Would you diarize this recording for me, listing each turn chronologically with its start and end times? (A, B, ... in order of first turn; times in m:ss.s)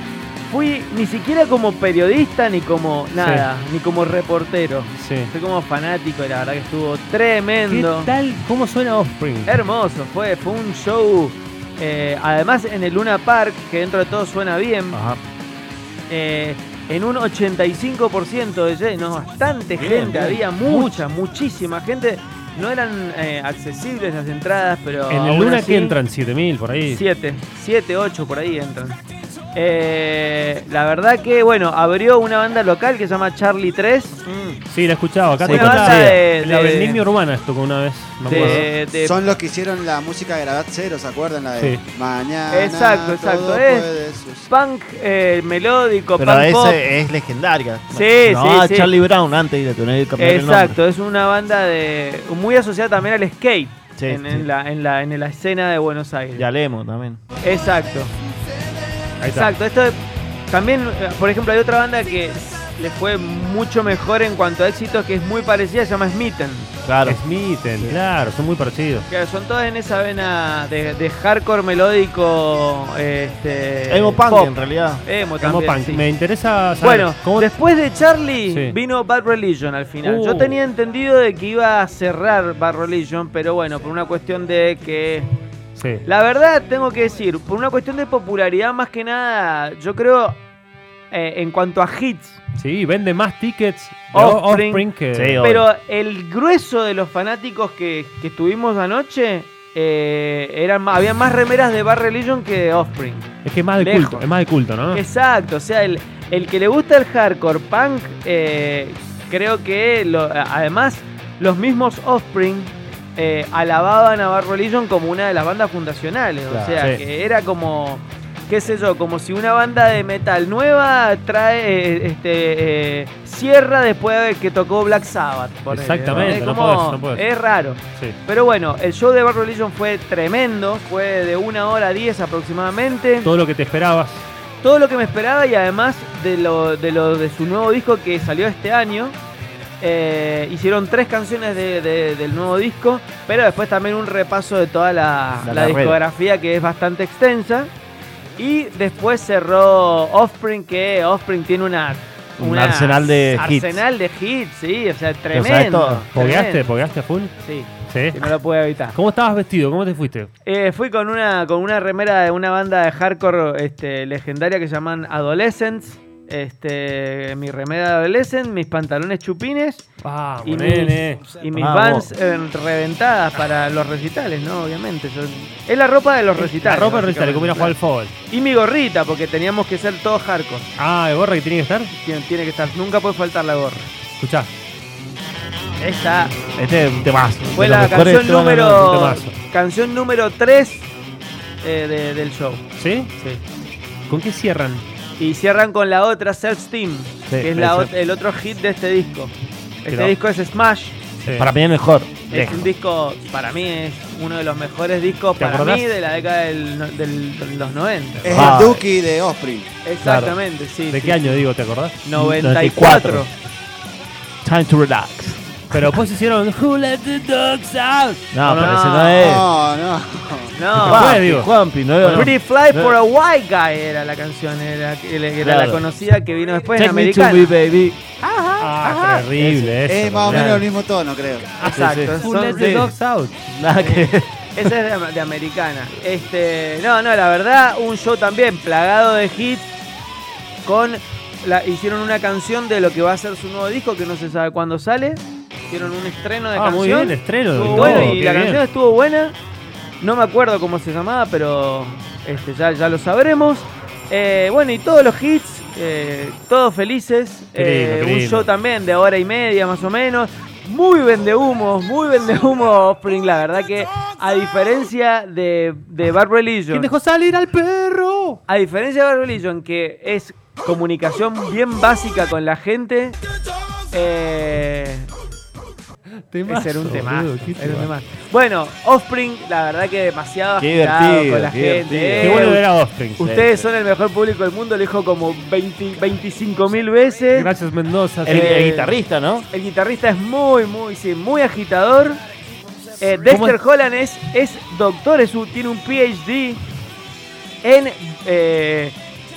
0:00.5-0:08.1 A
0:03.2-0:03.5 B
0:05.0-0:05.3 B
0:07.7-0:09.5 B
0:09.5-0:15.0 A
0:14.9-0:15.2 C
0:16.1-0:26.0 A
0:19.8-0:20.4 C
0:20.6-0:21.0 B
0:25.1-0:27.0 B
0:26.9-0:29.0 A
0:29.6-0:34.2 A
0:34.3-0:34.6 C
0:34.7-0:38.7 B
0:35.4-0:36.2 C
0:35.5-0:37.0 A
0:38.2-0:39.2 A
0:38.3-0:44.5 D
0:41.6-0:41.8 B
0:42.5-0:43.9 A
0:44.5-0:46.8 A
0:46.2-0:50.8 C
0:47.9-0:48.9 A
0:50.2-0:56.5 A
0:54.0-0:54.5 C
0:56.4-0:57.2 C
0:57.4-0:58.1 A
0:59.2-0:59.5 B
0:59.3-1:00.0 A
1:00.5-1:06.7 A
1:06.8-1:07.2 C
1:07.1-1:09.1 B
1:09.1-1:16.0 A
1:13.9-1:15.0 C
1:15.4-1:17.5 B
1:16.8-1:25.3 A
1:18.5-1:18.8 B
1:20.0-1:20.6 B
1:25.8-1:26.0 B
1:26.0-1:30.4 A
1:31.1-1:32.4 A
1:32.6-1:35.4 B
1:34.1-1:34.9 A
1:35.1-1:35.6 C
1:35.4-1:44.3 A
1:43.4-1:45.0 B
1:44.9-2:13.3 A
1:56.5-1:56.9 B
2:05.7-2:07.2 B
2:13.2-2:14.2 B
2:14.6-2:19.2 A
2:19.8-2:27.7 A
2:25.4-2:26.0 C
2:28.4-2:36.7 A
2:32.4-2:33.8 C
2:35.3-2:36.1 C
2:36.1-2:37.3 B
2:37.4-2:39.0 A
2:37.9-2:38.3 B
2:38.9-2:40.3 B
2:40.4-2:49.8 A
2:50.0-2:51.2 B
2:50.4-2:57.8 A
2:51.5-2:52.1 C
2:56.3-2:58.1 B
2:58.3-3:00.7 A
3:00.8-3:01.9 B
3:01.9-3:03.9 A
3:04.2-3:04.5 B
3:05.8-3:06.4 A
3:06.6-3:08.7 C
3:07.6-3:10.9 A
3:08.4-3:09.4 B
3:11.6-3:12.6 A
3:12.8-3:13.1 B
3:14.1-3:14.8 B
3:15.2-3:19.3 A
3:17.3-3:17.9 C
3:19.8-3:21.0 A
3:19.9-3:20.2 B
3:21.2-3:21.5 B
3:21.4-3:22.7 C
3:22.3-3:28.8 A
3:25.4-3:25.9 B
3:28.2-3:29.7 D
3:28.3-3:28.8 C
3:29.8-3:31.4 A
3:30.0-3:30.4 C
3:30.9-3:33.2 B
3:32.0-3:33.3 A
3:34.4-3:35.4 C
3:35.7-3:38.8 B
3:38.3-3:39.5 C
3:38.6-3:39.4 A
3:39.2-3:40.6 D
3:40.6-3:41.2 A
3:40.7-3:41.5 B
3:40.8-3:43.0 C
3:42.0-3:42.3 B
3:42.0-3:47.6 A
3:45.4-3:45.8 C
3:46.8-3:50.6 C
3:48.6-3:50.7 B
3:49.8-3:51.6 D
3:51.6-3:52.8 A
3:51.6-3:53.4 B
3:51.7-3:52.9 C
3:53.5-3:54.5 C
3:53.8-3:59.7 A
4:00.6-4:09.4 A
4:06.6-4:08.6 B
4:10.0-4:26.9 A
4:17.6-4:18.5 B
4:26.7-4:28.4 B
4:28.5-4:33.2 A
4:33.9-4:35.1 A
4:36.3-4:37.9 B
4:36.5-4:42.6 A
4:40.6-4:42.5 C
4:42.2-4:43.2 B
4:43.2-4:47.5 A
4:43.2-4:43.7 C
4:47.3-4:48.6 B
4:48.2-4:49.5 C
4:48.3-4:49.0 A
4:49.5-4:52.2 A
4:53.0-4:56.6 A
4:53.2-4:53.6 B
4:57.6-4:59.0 A